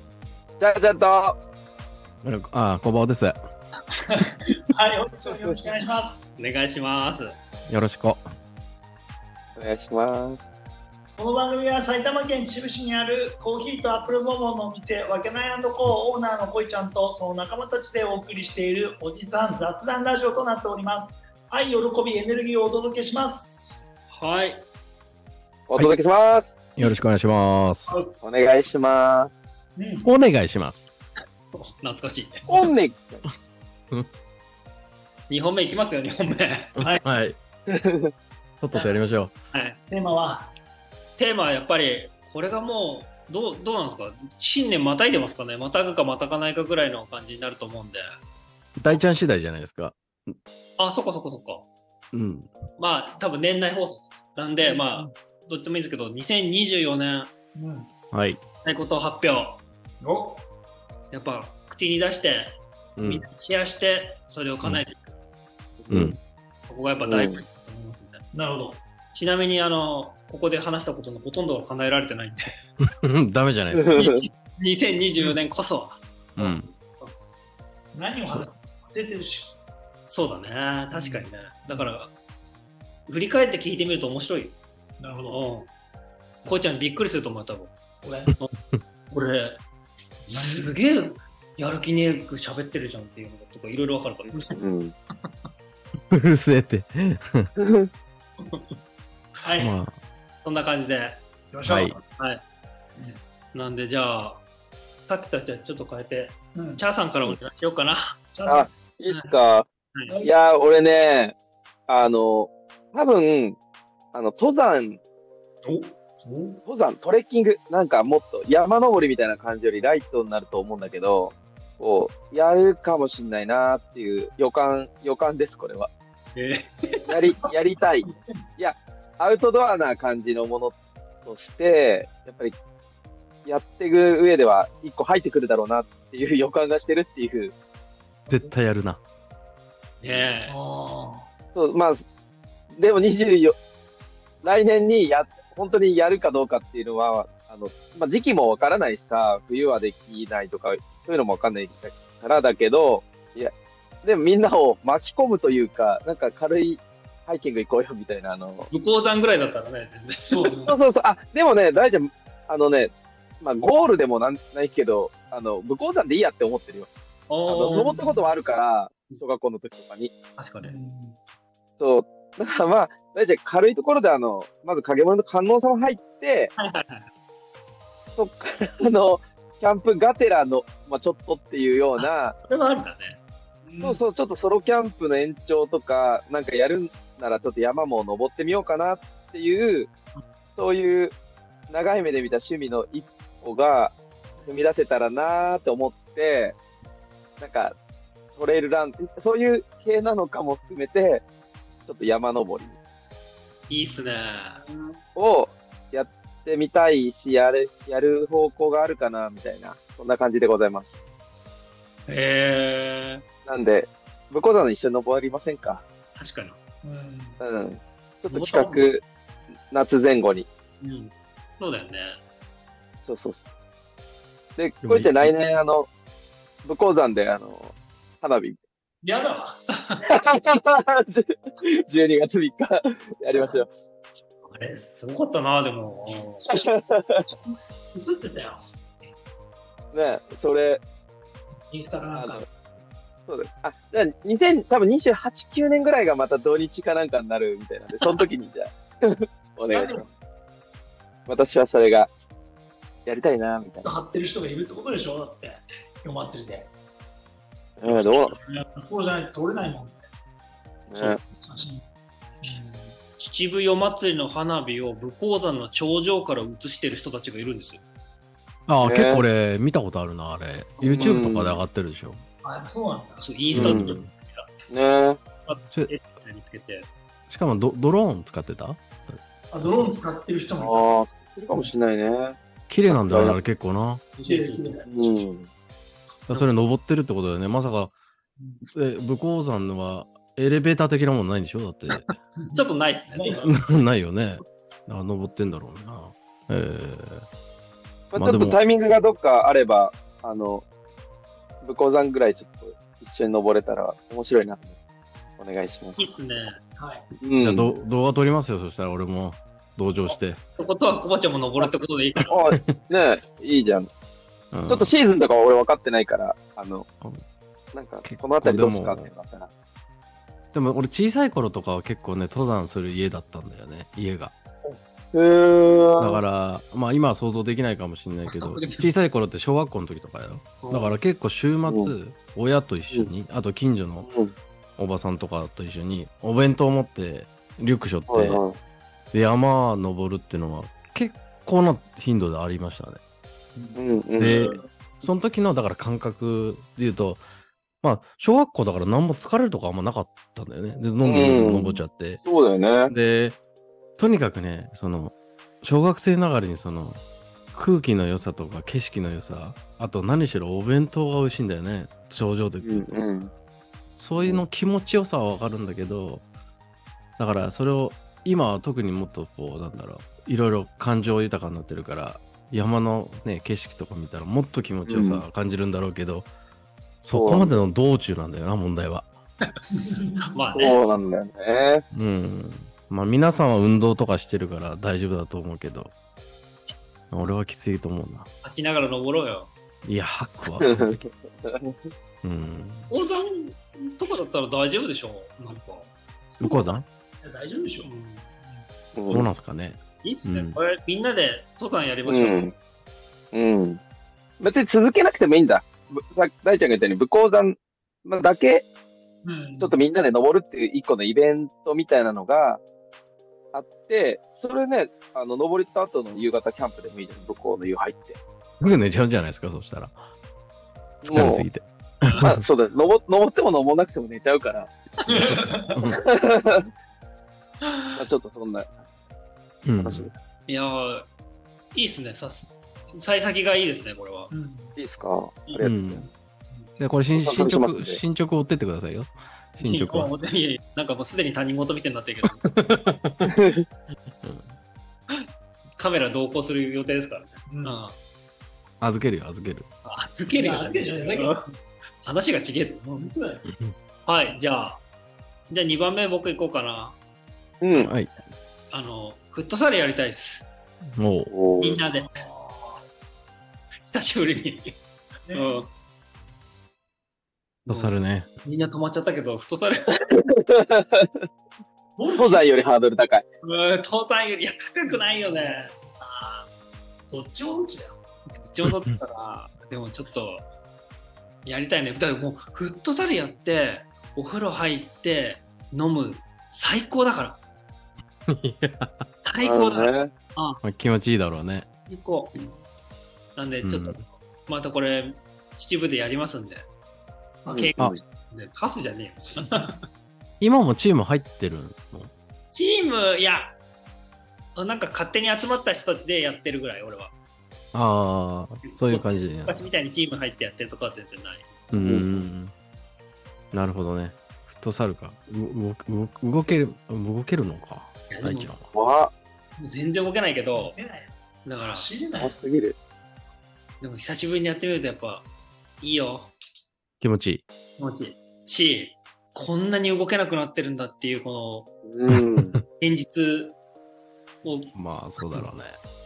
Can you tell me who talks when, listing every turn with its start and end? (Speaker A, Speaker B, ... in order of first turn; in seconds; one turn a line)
Speaker A: 0.6-1.4
Speaker B: 2.2-3.4
Speaker C: 4.1-6.2
Speaker A: 5.2-5.6
Speaker D: 6.4-7.4
Speaker B: 7.7-8.3
Speaker A: 9.6-10.4
Speaker C: 11.2-23.9
Speaker D: 24.1-24.6
Speaker A: 25.7-26.6
Speaker B: 26.8-28.0
Speaker A: 28.2-29.3
Speaker C: 29.8-30.1
Speaker B: 30.0-30.9
Speaker D: 31.5-32.5
Speaker C: 32.5-32.7
Speaker A: 32.5-33.3
Speaker D: 35.3-36.8
Speaker B: 36.8-37.4
Speaker A: 37.7-38.1
Speaker B: 38.6-39.4
Speaker D: 39.5-39.8
Speaker C: 39.9-40.5
Speaker D: 41.2-48.0
Speaker B: 48.8-50.4
Speaker D: 50.8-51.7
Speaker B: 52.1-52.5
Speaker D: 52.8-57.3
Speaker C: 54.6-55.1
Speaker C: 57.5-57.9
Speaker B: 58.1-58.4
Speaker D: 58.6-59.6
Speaker C: 60.0-60.5
Speaker D: 61.1-65.2
Speaker B: 63.0-63.3
Speaker A: 65.8-66.2
Speaker B: 65.9-66.2
Speaker D: 66.6-68.2
Speaker A: 67.0-67.4
Speaker C: 68.3-68.8
Speaker D: 69.1-72.5
Speaker B: 72.8-73.8
Speaker A: 73.7-74.2
Speaker D: 73.9-76.0
Speaker C: 76.3-76.7
Speaker B: 76.4-76.7
Speaker C: 77.9-79.5
Speaker D: 80.1-82.1
Speaker C: 80.9-81.9
Speaker D: 83.1-84.6
Speaker C: 85.0-85.4
Speaker D: 85.3-85.7
Speaker D: 86.5-87.7
Speaker C: 88.0-88.3
Speaker D: 89.1-89.6
Speaker D: 90.3-94.6
Speaker C: 90.3-90.7
Speaker C: 94.3-94.6
Speaker A: 94.6-94.9
Speaker B: 96.1-97.5
Speaker A: 97.6-97.9
Speaker C: 99.4-99.8
Speaker B: 99.6-100.0
Speaker D: 100.4-101.2
Speaker C: 101.5-102.0
Speaker B: 101.7-102.0
Speaker D: 103.5-104.4
Speaker D: 105.0-108.2
Speaker C: 106.5-106.8
Speaker C: 108.3-108.7
Speaker A: 108.5-109.7
Speaker D: 109.1-109.3
Speaker C: 110.1-110.3
Speaker A: 110.2-111.3
Speaker A: 111.9-113.6
Speaker A: 114.1-115.0
Speaker D: 115.7-116.6
Speaker A: 116.7-125.9
Speaker D: 126.3-127.0
Speaker C: 126.8-128.5
Speaker A: 127.1-132.6
Speaker A: 133.4-137.5
Speaker C: 138.3-138.5
Speaker B: 138.3-139.0
Speaker D: 140.0-140.6
Speaker C: 140.5-141.3
Speaker A: 141.5-142.0
Speaker A: 142.8-143.6
Speaker A: 144.4-153.5
Speaker A: 154.0-158.7
Speaker D: 158.7-160.7
Speaker C: 160.3-160.7
Speaker A: 160.7-166.9
Speaker D: 167.3-168.0
Speaker A: 167.5-170.1
Speaker C: 167.7-168.2
Speaker D: 170.4-170.7
Speaker C: 170.6-171.2
Speaker A: 171.8-176.5
Speaker D: 176.6-177.1
Speaker A: 178.2-182.4
Speaker D: 182.0-183.2
Speaker C: 183.7-184.0
Speaker A: 183.8-189.9
Speaker A: 190.6-191.1
Speaker A: 191.7-196.6
Speaker A: 197.4-197.8
Speaker A: 198.4-201.2
Speaker A: 201.9-202.8
Speaker D: 203.7-204.6
Speaker C: 203.7-204.0
Speaker A: 205.2-211.0
Speaker D: 212.1-213.2
Speaker A: 213.5-215.8
Speaker D: 216.2-216.6
Speaker C: 216.8-217.4
Speaker A: 217.4-219.0
Speaker D: 218.3-218.8
Speaker A: 219.7-220.5
Speaker D: 220.8-222.2
Speaker A: 223.1-223.4
Speaker A: 224.6-225.9
Speaker B: 224.8-225.3
Speaker A: 226.7-228.6
Speaker C: 229.0-229.5
Speaker A: 230.1-233.7
Speaker D: 234.4-236.4
Speaker A: 236.5-237.3
Speaker C: 237.3-238.6
Speaker A: 239.9-240.8
Speaker C: 241.7-242.4
Speaker A: 242.1-242.5
Speaker A: 243.3-250.1
Speaker C: 249.7-250.1
Speaker A: 251.3-252.1
Speaker A: 253.1-253.9
Speaker C: 253.8-256.7
Speaker A: 257.8-258.4
Speaker D: 257.9-258.6
Speaker C: 258.8-260.1
Speaker A: 260.9-261.2
Speaker D: 261.0-261.2
Speaker C: 261.4-261.8
Speaker C: 262.4-263.0
Speaker D: 263.2-267.8
Speaker B: 268.7-272.2
Speaker A: 268.8-269.2
Speaker C: 270.8-271.2
Speaker A: 270.8-271.6
Speaker C: 272.4-273.2
Speaker D: 273.2-274.5
Speaker B: 273.5-274.1
Speaker A: 273.5-273.9
Speaker A: 274.7-275.2
Speaker D: 275.5-276.9
Speaker B: 277.3-279.9
Speaker C: 279.5-281.7
Speaker A: 280.6-282.4
Speaker B: 282.7-284.0
Speaker A: 282.9-283.4
Speaker D: 284.2-285.2
Speaker C: 284.2-285.1
Speaker A: 284.9-285.5
Speaker B: 286.3-287.9
Speaker B: 288.7-292.1
Speaker D: 291.9-293.5
Speaker C: 293.2-293.5
Speaker B: 293.3-297.3
Speaker A: 298.1-300.6
Speaker B: 298.2-298.6
Speaker A: 301.6-304.8
Speaker A: 305.4-306.1
Speaker D: 306.0-306.6
Speaker C: 306.8-307.0
Speaker A: 307.2-307.7
Speaker B: 307.4-310.4
Speaker D: 310.1-312.4
Speaker A: 312.3-313.9
Speaker B: 314.5-314.9
Speaker A: 314.7-316.9
Speaker A: 317.7-319.5
Speaker B: 318.0-319.1
Speaker B: 320.5-324.4
Speaker A: 325.1-326.2
Speaker B: 326.0-334.1
Speaker D: 328.3-328.8
Speaker D: 330.6-331.0
Speaker A: 331.7-331.9
Speaker A: 334.0-334.3
Speaker B: 334.8-338.4
Speaker A: 338.1-338.6
Speaker B: 339.1-343.0
Speaker A: 343.8-344.6
Speaker B: 344.2-347.2
Speaker B: 347.8-352.2
Speaker A: 351.1-352.9
Speaker B: 352.9-353.4
Speaker B: 354.0-357.0
Speaker B: 357.5-363.0
Speaker A: 362.6-363.3
Speaker B: 364.0-366.2
Speaker A: 364.1-364.4
Speaker B: 367.2-376.3
Speaker A: 374.9-375.2
Speaker B: 377.0-379.1
Speaker A: 377.1-377.7
Speaker C: 379.7-380.2
Speaker D: 380.2-380.8
Speaker A: 380.5-381.8
Speaker B: 381.9-385.9
Speaker B: 387.1-388.3
Speaker D: 388.4-389.5
Speaker B: 389.9-391.0
Speaker A: 390.6-391.8
Speaker B: 392.2-392.9
Speaker D: 392.9-396.7
Speaker B: 396.4-396.9
Speaker C: 397.2-397.9
Speaker D: 397.8-398.3
Speaker C: 398.4-398.7
Speaker A: 399.0-399.3
Speaker B: 399.1-400.6
Speaker D: 400.0-402.5
Speaker A: 402.1-402.5
Speaker A: 403.3-403.8
Speaker A: 404.4-408.7
Speaker C: 409.2-409.8
Speaker A: 409.6-412.6
Speaker A: 413.5-418.2
Speaker B: 418.6-420.0
Speaker B: 421.0-422.4
Speaker A: 421.0-421.5
Speaker A: 422.2-424.7
Speaker B: 425.1-426.1
Speaker C: 425.1-425.7
Speaker A: 425.9-426.6
Speaker D: 427.7-427.9
Speaker A: 428.0-428.8
Speaker B: 429.6-430.1
Speaker A: 429.8-430.2
Speaker D: 430.5-431.1
Speaker D: 431.7-434.3
Speaker C: 434.3-434.8
Speaker A: 434.8-436.1
Speaker B: 435.6-436.1
Speaker B: 436.8-440.1
Speaker A: 437.1-438.0
Speaker D: 439.6-442.5
Speaker B: 442.4-443.3
Speaker A: 443.3-443.6
Speaker B: 444.2-444.6
Speaker D: 445.8-448.0
Speaker C: 447.5-447.8
Speaker B: 448.8-449.7
Speaker D: 449.9-451.4
Speaker C: 450.3-451.4
Speaker D: 452.0-453.1
Speaker C: 453.0-453.4
Speaker B: 453.5-453.8
Speaker D: 454.1-454.8
Speaker D: 455.5-457.0
Speaker A: 457.6-457.9
Speaker B: 457.7-458.2
Speaker D: 458.7-460.5
Speaker B: 461.0-461.3
Speaker A: 461.3-461.8
Speaker D: 461.6-462.1
Speaker C: 461.9-462.8
Speaker D: 463.9-464.8
Speaker C: 465.3-465.6
Speaker D: 465.3-465.7
Speaker D: 467.7-467.9
Speaker B: 467.7-468.3
Speaker D: 468.4-469.9
Speaker A: 470.3-471.3
Speaker C: 472.0-472.5
Speaker A: 472.1-473.3
Speaker D: 473.4-475.7
Speaker C: 474.9-476.4
Speaker C: 477.1-478.0
Speaker D: 478.4-480.4
Speaker B: 478.6-479.0
Speaker D: 481.4-487.4
Speaker B: 488.3-489.1
Speaker D: 489.2-490.7
Speaker A: 489.4-490.1
Speaker B: 490.6-491.7
Speaker D: 491.9-492.6
Speaker D: 493.4-496.6
Speaker B: 493.6-494.0
Speaker D: 497.4-499.8
Speaker A: 497.5-498.0
Speaker B: 500.4-502.1
Speaker D: 502.5-503.6
Speaker D: 504.6-507.1
Speaker B: 507.7-509.7
Speaker D: 508.6-511.5
Speaker B: 511.7-512.5
Speaker A: 511.8-512.3
Speaker B: 513.5-518.7
Speaker D: 518.1-518.5
Speaker A: 518.7-519.1
Speaker D: 519.6-520.8
Speaker C: 520.5-522.4
Speaker D: 521.5-521.9
Speaker A: 522.2-522.8
Speaker D: 523.8-525.3
Speaker D: 525.8-526.3
Speaker B: 527.0-527.5
Speaker D: 527.8-531.7
Speaker A: 531.9-532.5
Speaker B: 532.1-532.6
Speaker D: 532.8-533.6
Speaker D: 534.4-534.7
Speaker B: 534.8-535.8